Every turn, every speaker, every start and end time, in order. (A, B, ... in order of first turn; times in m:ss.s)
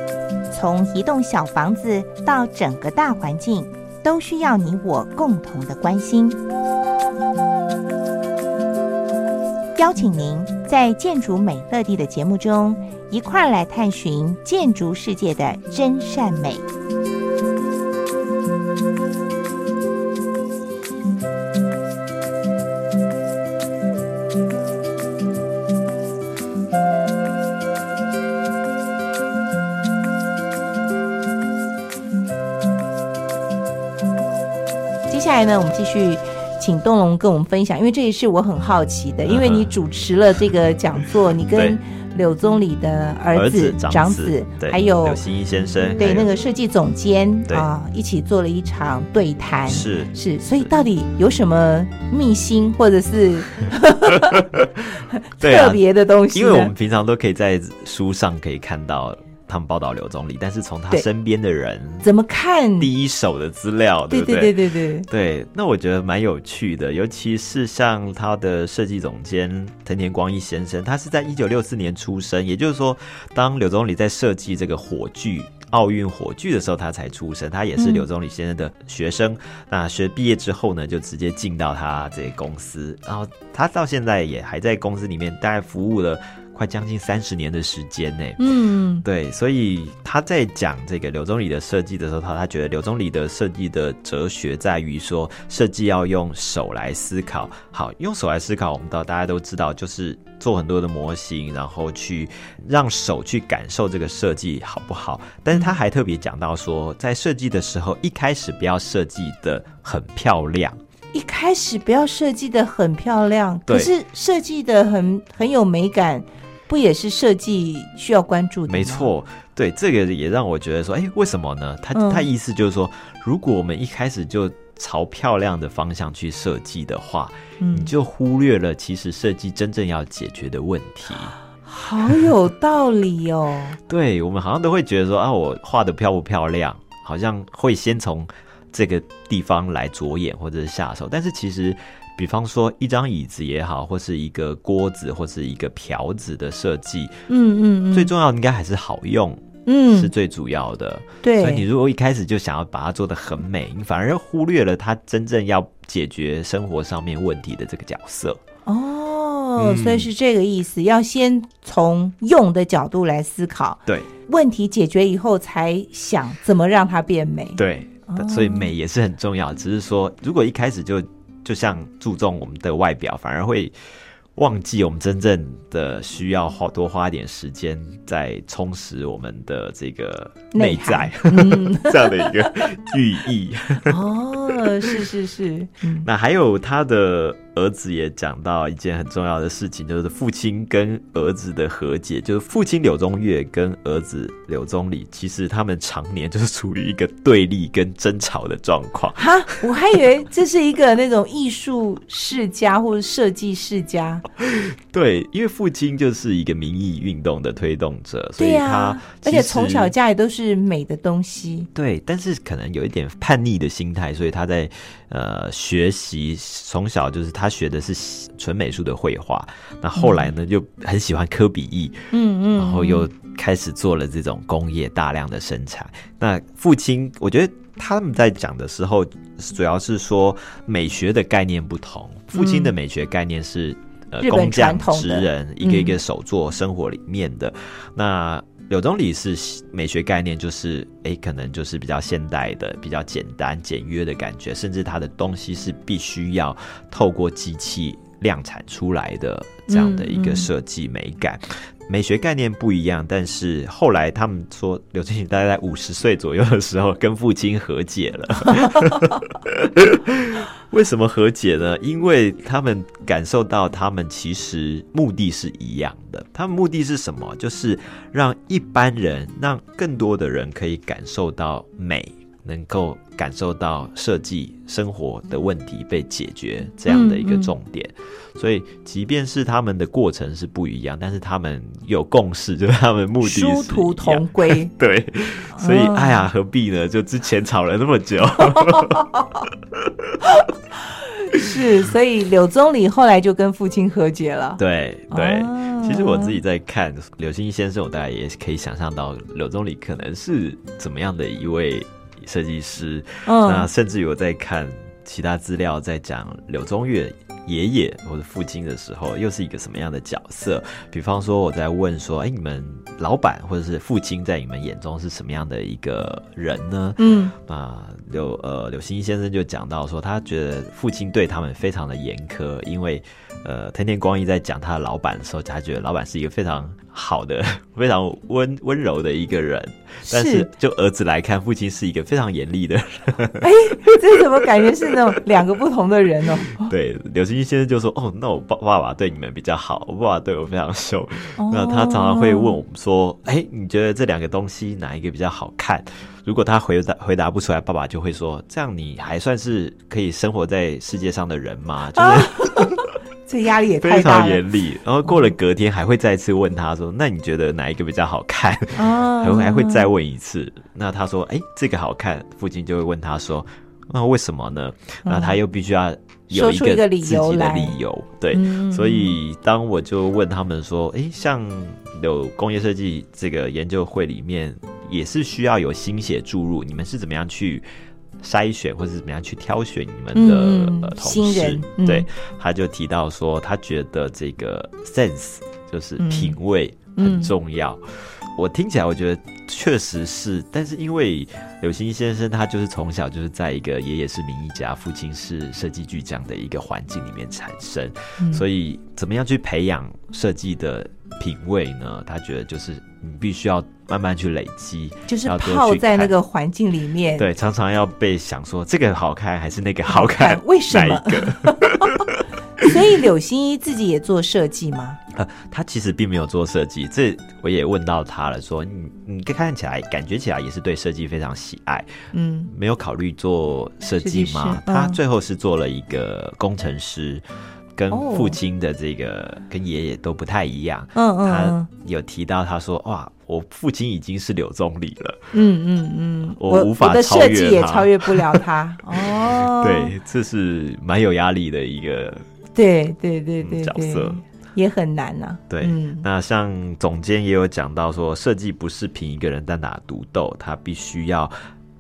0:00.5-0:06.4 A
0:09.8-0:16.6 A
0:35.1-0:45.2 A
0:39.2-0:39.7 B
0:43.3-0:46.3 B
0:46.0-0:54.5 A
0:49.7-0:50.7 B
0:54.5-0:55.8 B
0:55.2-0:56.7 A
0:56.3-1:02.1 B
1:02.0-1:02.9 A
1:02.8-1:04.6 B
1:04.1-1:05.1 A
1:05.1-1:28.4 B
1:17.8-1:18.1 A
1:28.4-1:29.0 A
1:29.0-1:50.8 B
1:51.1-1:59.1 A
1:58.7-2:11.4 B
2:01.9-2:02.3 A
2:07.6-2:07.9 A
2:11.7-2:13.8 A
2:13.9-2:27.1 B
2:27.3-2:28.1 A
2:27.9-2:38.4 B
2:29.7-2:30.1 A
2:31.2-2:31.6 A
2:38.7-2:48.7 A
2:39.6-2:40.1 B
2:47.6-2:53.7 B
2:54.4-3:04.0 B
3:00.5-3:02.6 A
3:03.9-3:06.1 A
3:06.0-3:19.6 B
3:19.2-3:24.2 A
3:24.4-3:29.9 B
3:28.4-3:31.7 A
3:31.8-4:49.1 B
3:40.0-3:40.3 A
3:42.1-3:43.1 A
3:52.4-3:52.7 A
3:54.2-3:56.0 A
4:09.7-4:10.5 A
4:36.9-4:37.5 A
4:43.2-4:44.7 A
4:45.6-4:46.2 A
4:48.7-4:49.4 A
4:49.8-4:50.1 B
4:51.3-4:56.4 A
4:54.6-5:33.5 B
5:03.2-5:03.7 A
5:17.0-5:17.3 A
5:30.1-5:30.5 A
5:33.4-5:36.7 A
5:36.6-5:52.9 B
5:41.4-5:42.6 A
5:52.0-5:54.5 A
5:53.8-6:17.6 B
5:58.8-5:59.9 A
6:05.0-6:05.4 A
6:06.3-6:07.8 A
6:08.3-6:09.2 A
6:18.2-6:46.1 B
6:20.1-6:22.1 A
6:26.0-6:26.4 A
6:27.0-6:27.3 A
6:38.2-6:38.4 A
6:45.1-6:47.3 A
6:47.2-6:52.2 B
6:49.9-6:52.1 A
6:52.6-6:55.0 A
6:55.1-7:07.2 B
7:02.1-7:02.5 A
7:04.0-7:05.0 A
7:07.8-7:15.2 B
7:07.9-7:08.4 A
7:11.0-7:11.7 A
7:15.3-7:19.9 A
7:16.4-7:18.4 B
7:19.2-7:22.2 B
7:22.6-7:26.1 A
7:23.4-7:24.2 B
7:25.5-7:31.3 B